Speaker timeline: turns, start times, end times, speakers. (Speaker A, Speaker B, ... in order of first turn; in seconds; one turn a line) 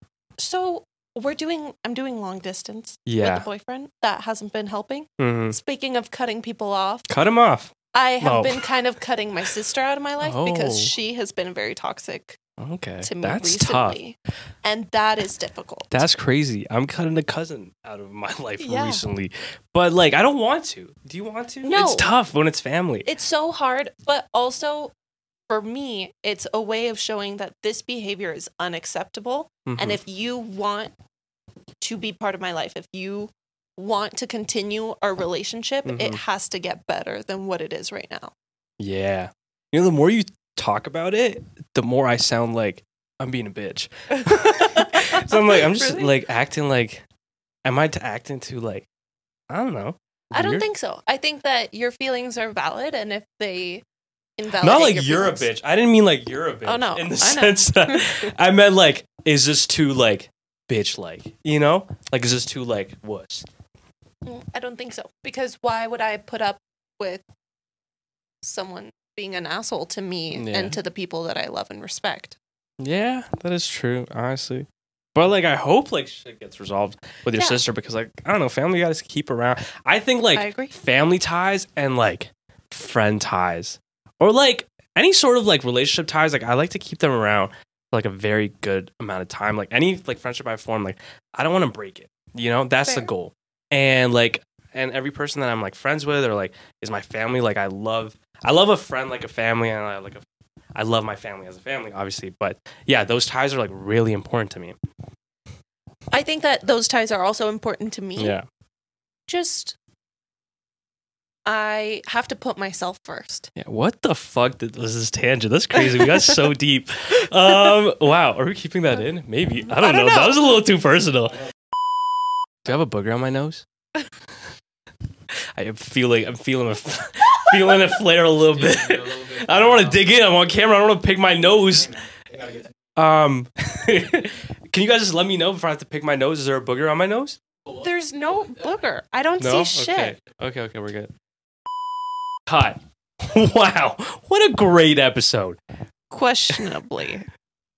Speaker A: 0.4-7.0
Speaker B: 3.0-3.5
Speaker B: 5.2-5.5
Speaker B: 7.1-8.6
Speaker A: 7.9-12.4
Speaker B: 10.2-10.9
Speaker B: 12.6-14.0
Speaker A: 13.0-16.0
Speaker B: 15.9-23.1
Speaker A: 18.6-19.0
Speaker A: 21.6-22.1
Speaker A: 23.0-24.9
Speaker A: 25.5-30.9
Speaker B: 29.6-30.0
Speaker A: 31.8-38.3
Speaker B: 35.8-36.2
Speaker B: 38.8-47.0
Speaker A: 44.2-46.1
Speaker B: 47.6-48.9
Speaker B: 49.5-50.6
Speaker A: 50.3-53.8
Speaker A: 54.4-55.5
Speaker B: 54.6-63.4
Speaker A: 56.6-58.3
Speaker A: 64.2-67.2
Speaker A: 68.4-72.4
Speaker B: 70.3-70.8
Speaker B: 72.8-104.7
Speaker A: 77.3-77.6
Speaker A: 80.3-80.7
Speaker A: 92.8-93.1
Speaker A: 106.1-108.3
Speaker B: 108.2-108.4
Speaker A: 109.3-109.8
Speaker A: 111.5-113.5
Speaker B: 113.5-121.4
Speaker A: 119.7-120.5
Speaker B: 122.6-123.6
Speaker B: 125.5-137.4
Speaker A: 137.7-140.2
Speaker B: 139.4-141.1
Speaker B: 142.5-145.6
Speaker A: 146.1-147.3